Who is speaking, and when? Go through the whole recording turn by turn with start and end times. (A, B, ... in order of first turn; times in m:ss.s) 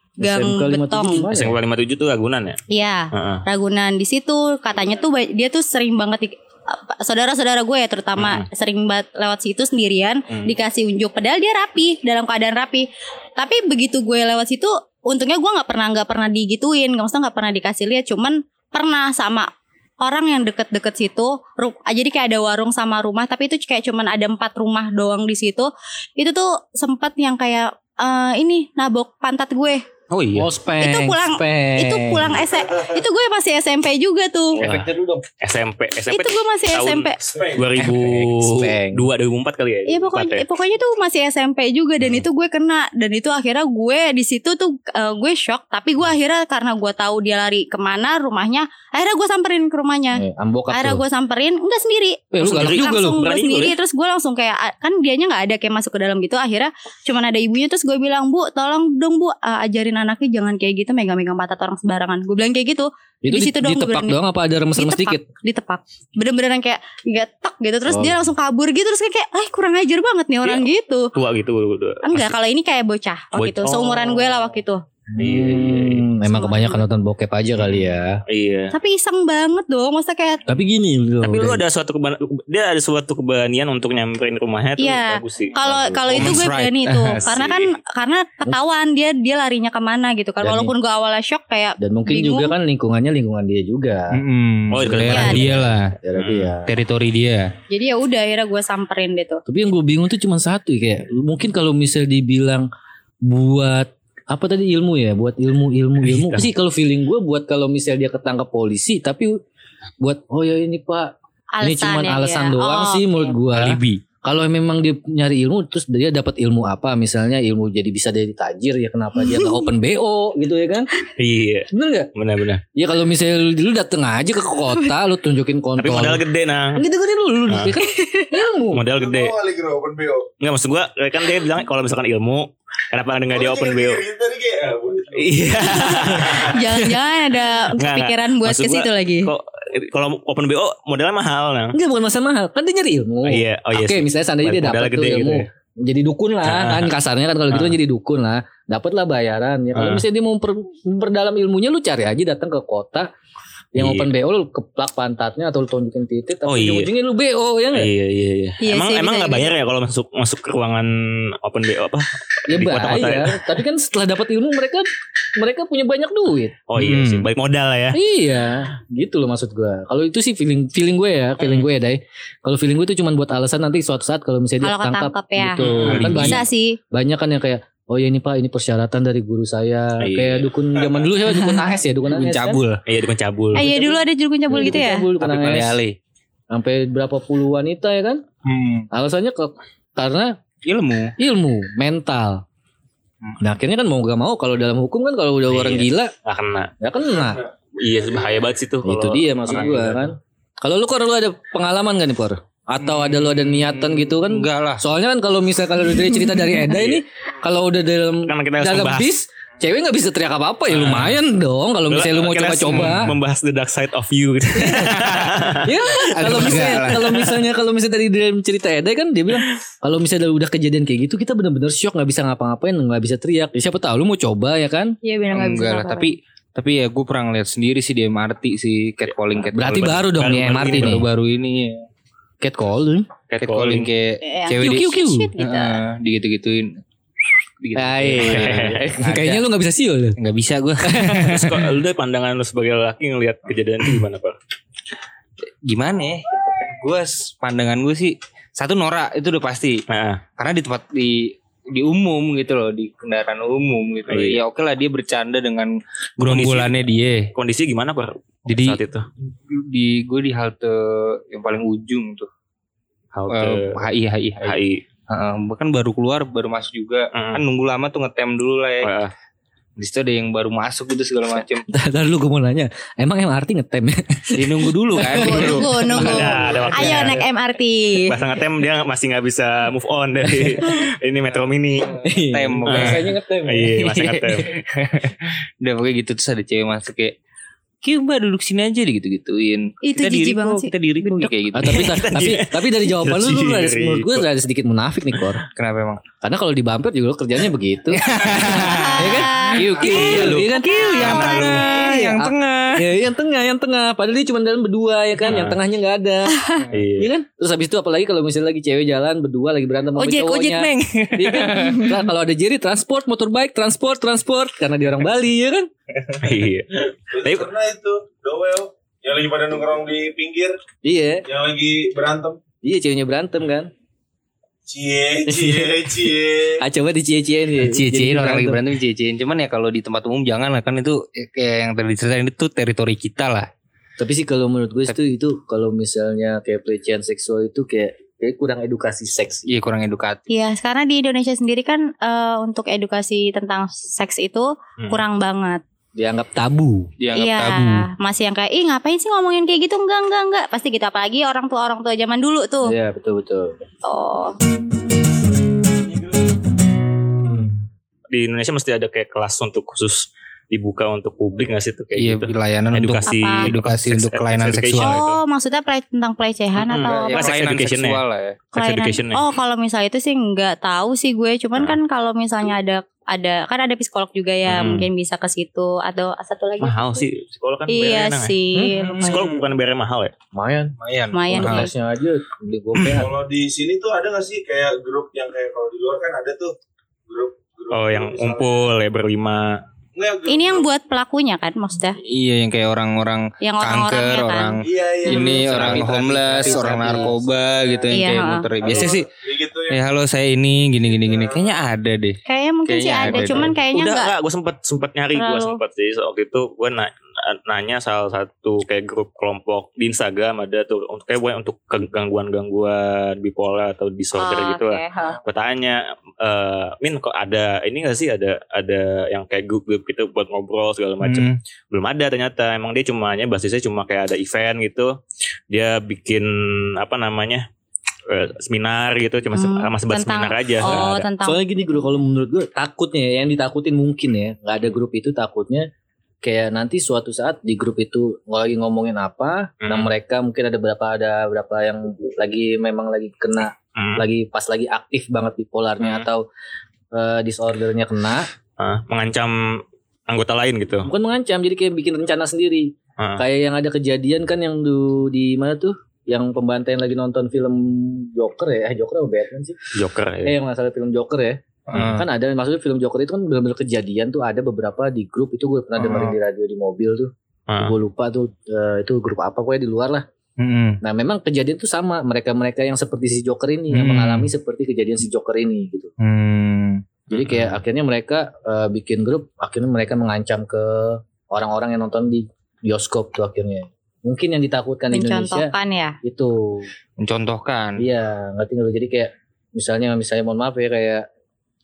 0:00.2-0:01.6 A
0:00.2-0:01.2 B
0:01.3-0:02.6 C
0:02.7-0:19.5 B
0:03.1-0:03.4 C
0:08.2-0:08.4 C
0:20.0-0:29.8 B
0:30.1-0:30.5 D
0:30.4-0:32.4 A
0:30.8-0:34.6 B
0:34.6-0:40.4 C
0:34.6-0:35.2 A
0:36.1-0:37.2 B
0:37.3-0:37.6 E
0:37.8-0:39.0 A
0:39.9-1:04.2 B
0:50.2-0:51.0 A
0:52.3-0:53.2 A
0:52.4-0:53.7 C
1:03.2-1:05.2 A
1:04.8-1:11.1 B
1:07.9-1:08.2 A
1:10.4-1:12.3 C
1:12.0-1:14.8 B
1:13.4-1:14.4 C
1:15.1-1:18.2 A
1:15.2-1:16.0 C
1:16.2-1:16.8 B
1:18.3-1:18.7 C
1:18.7-1:20.4 B
1:20.5-1:21.6 A
1:21.2-1:25.5 C
1:24.8-1:32.5 B
1:25.6-1:26.1 A
1:26.1-1:27.3 D
1:27.1-1:27.8 C
1:30.4-1:30.7 A
1:31.8-1:34.1 A
1:34.1-1:36.0 D
1:34.7-1:35.6 C
1:34.8-1:36.7 A
1:36.1-1:36.5 C
1:36.6-1:37.5 D
1:37.7-1:39.4 B
1:39.5-1:42.7 A
1:43.2-1:49.3 A
1:46.0-1:46.5 C
1:50.0-2:00.9 A
1:51.6-1:53.3 B
1:53.5-1:54.0 D
1:59.2-1:59.6 B
2:01.2-2:02.6 C
2:01.7-2:02.1 A
2:02.7-2:06.2 A
2:05.8-2:06.8 C
2:06.7-2:08.8 A
2:07.5-2:07.8 C
2:07.8-2:08.3 B
2:08.7-2:09.3 C
2:08.9-2:10.3 E
2:10.4-2:14.0 C
2:13.3-2:16.2 E
2:15.2-2:16.6 C
2:15.6-2:19.3 B
2:17.7-2:21.8 C
2:21.7-2:33.1 A
2:23.2-2:25.5 C
2:26.4-2:26.9 C
2:27.5-2:27.8 C
2:29.7-2:30.0 C
2:33.7-2:37.9 A
2:33.8-2:34.1 C
2:36.4-2:36.9 C
2:37.7-2:43.4 C
2:38.6-2:39.5 B
2:42.5-2:46.6 A
2:46.7-2:48.0 C
2:46.8-2:47.3 D
2:47.9-3:02.6 A
2:51.4-2:51.7 C
2:54.6-2:56.8 B
2:55.6-2:56.3 C
2:55.8-2:56.4 D
3:00.0-3:00.5 C
3:02.1-3:02.8 D
3:02.8-3:03.6 C
3:03.5-3:05.8 A
3:03.5-3:05.1 B
3:05.2-3:06.0 D
3:06.5-3:08.2 A
3:08.4-3:08.9 D
3:08.9-3:10.4 A
3:10.6-3:11.1 D
3:11.2-3:12.4 A
3:13.4-3:16.1 A
3:15.5-3:16.7 C
3:16.8-3:17.4 A
3:17.8-3:20.0 C
3:18.8-3:33.2 A
3:22.8-3:24.8 D
3:26.7-3:27.0 C
3:28.2-3:29.1 C
3:30.7-3:31.0 C
3:30.8-3:31.2 D
3:31.9-3:37.0 C
3:32.7-3:33.1 D
3:34.6-3:35.0 A
3:35.6-3:44.9 A
3:36.1-3:37.3 D
3:45.0-3:46.1 B
3:45.3-3:51.8 D
3:49.1-3:51.0 C
3:49.5-3:51.1 A
3:52.4-3:53.1 A
3:53.3-3:56.7 D
3:53.4-3:53.9 C
3:54.2-3:55.8 B
3:54.6-3:55.3 A
3:57.6-3:59.4 D
3:57.7-4:00.2 A
3:58.2-3:58.8 C
4:00.2-4:01.6 D
4:00.8-4:01.5 A
4:01.3-4:04.4 C
4:05.6-4:06.2 D
4:06.8-4:09.8 D
4:09.9-4:10.2 C
4:10.4-4:17.3 D
4:14.1-4:14.4 C
4:16.2-4:16.8 C
4:17.3-4:19.0 C
4:18.5-4:18.8 D
4:19.5-4:22.3 D
4:23.1-4:23.8 C
4:23.3-4:24.6 D
4:24.4-4:24.8 C
4:25.1-4:29.0 D
4:27.1-4:27.4 C
4:28.8-4:29.1 C
4:29.8-4:31.7 D
4:31.7-4:37.1 A
4:34.4-4:36.9 D
4:35.1-4:38.2 B
4:35.1-4:37.2 C
4:38.0-4:41.9 C
4:42.0-4:44.5 A
4:42.3-4:43.1 D
4:42.6-4:44.5 C
4:44.6-4:47.2 D
4:47.8-4:51.9 D
4:49.8-4:51.3 B
4:51.5-4:55.4 A
4:51.6-4:54.2 C
4:55.5-4:56.0 D
4:56.2-4:58.4 A
4:57.9-5:02.8 D
4:58.4-5:01.6 B
4:59.0-5:06.4 A
4:59.9-5:00.4 C
5:05.2-5:05.6 C
5:06.3-5:06.6 B
5:06.7-5:07.1 C
5:07.0-5:15.7 A
5:10.0-5:12.0 D
5:16.2-5:17.5 C
5:17.1-5:20.6 E
5:20.8-5:21.2 A
5:21.2-5:22.4 E
5:22.6-5:23.7 A
5:24.7-5:26.6 E
5:25.3-5:25.9 A
5:26.6-5:28.6 A
5:27.6-5:33.5 D
5:34.0-5:39.4 A
5:39.5-5:40.2 D
5:40.3-5:45.6 B
5:46.0-5:46.9 A
5:47.0-5:47.9 D
5:47.1-5:52.7 B
5:52.6-5:53.6 A
5:53.8-5:54.4 B
5:58.1-6:05.2 C
6:02.0-6:05.0 D
6:03.0-6:03.5 B
6:04.7-6:07.3 B
6:06.6-6:08.0 C
6:06.9-6:08.4 D
6:08.5-6:09.2 C
6:08.5-6:17.0 B
6:14.5-6:14.9 C
6:16.6-6:18.3 C
6:17.7-6:19.1 B
6:18.5-6:19.2 A
6:18.7-6:19.4 D
6:19.0-6:20.1 C
6:20.3-6:20.7 A
6:20.8-6:21.7 D
6:21.1-6:21.7 B
6:21.3-6:23.1 A
6:22.9-6:26.5 E
6:27.1-6:28.7 E
6:27.7-6:29.6 C
6:30.0-6:30.7 E
6:30.3-6:32.0 B
6:32.1-6:39.1 D
6:33.4-6:35.5 B
6:34.6-6:37.9 E
6:35.5-6:35.8 C
6:35.5-6:37.2 A
6:37.9-6:38.5 B
6:38.6-6:39.8 E
6:39.7-6:43.5 D
6:40.9-6:41.5 E
6:42.2-6:44.1 B
6:43.1-7:04.9 C
6:45.1-6:45.6 B
6:54.2-6:55.2 B
7:01.0-7:01.4 D
7:05.5-7:07.4 C
7:08.1-7:11.0 C
7:09.3-7:11.8 B
7:10.6-7:15.7 A
7:16.2-7:26.2 A
7:23.8-7:24.0 C
7:26.9-7:28.3 A
7:28.6-7:30.9 C
7:30.8-7:39.6 A
7:39.7-7:40.3 C
7:40.2-7:50.0 A
7:41.7-7:42.0 D
7:45.8-7:46.1 D
7:47.5-7:47.7 C
7:50.4-7:50.8 D
7:50.8-7:55.9 A
7:53.7-7:54.3 D
7:56.0-7:56.8 D
7:57.1-7:57.5 C
7:57.1-8:06.7 A
8:04.9-8:06.0 B
8:07.0-8:07.8 D
8:07.8-8:11.0 A